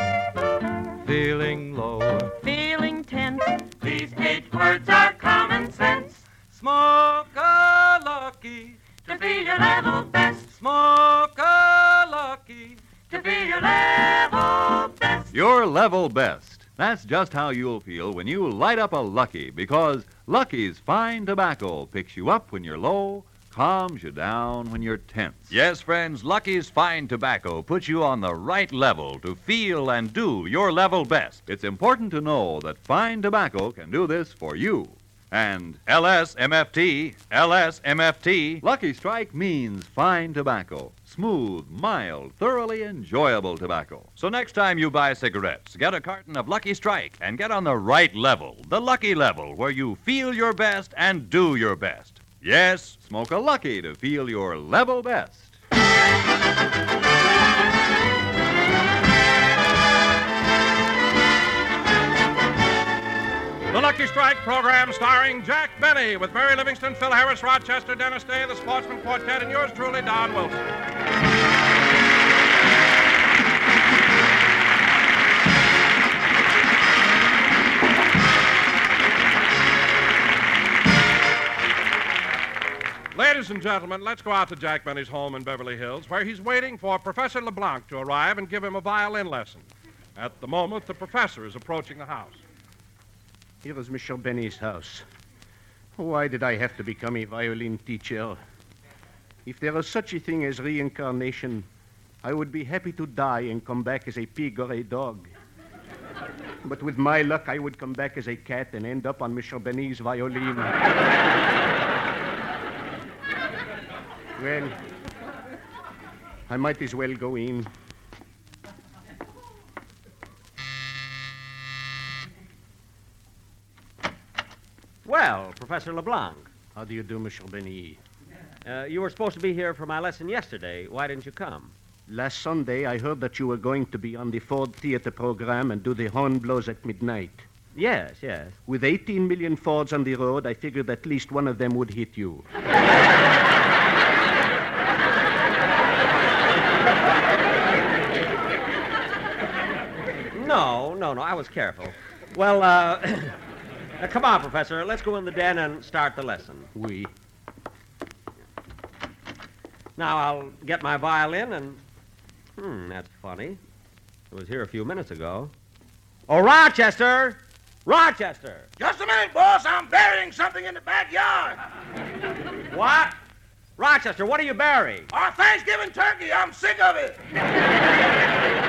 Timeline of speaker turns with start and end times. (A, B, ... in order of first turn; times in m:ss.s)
0:02.3-0:06.2 A
0:07.6-0:08.3 B
0:08.9-0:10.6 A
0:11.3-0:12.1 B
0:13.1-0:15.3 A
0:15.3-0:55.6 B
1:03.7-1:10.6 C
1:23.1-1:29.6 C
1:30.2-1:32.4 C
1:33.6-1:35.0 D
1:36.0-1:38.4 D
1:39.4-1:41.7 D
1:42.2-1:45.3 D
1:46.6-1:50.7 D
1:54.4-1:54.8 D
1:56.5-1:57.7 D
2:05.0-2:06.5 E
2:06.8-2:08.0 D
2:08.6-2:11.7 E
2:12.1-2:17.4 D
2:17.8-2:18.6 E
2:18.7-2:22.4 D
2:30.3-2:33.4 E
2:34.0-2:36.7 E
2:36.8-2:37.1 D
2:40.0-2:41.8 E
2:42.6-2:43.6 E
2:44.3-2:45.5 E
2:46.3-2:48.7 E
2:48.8-2:51.6 F
2:52.7-2:53.2 E
2:53.8-2:55.1 E
2:55.1-2:57.2 F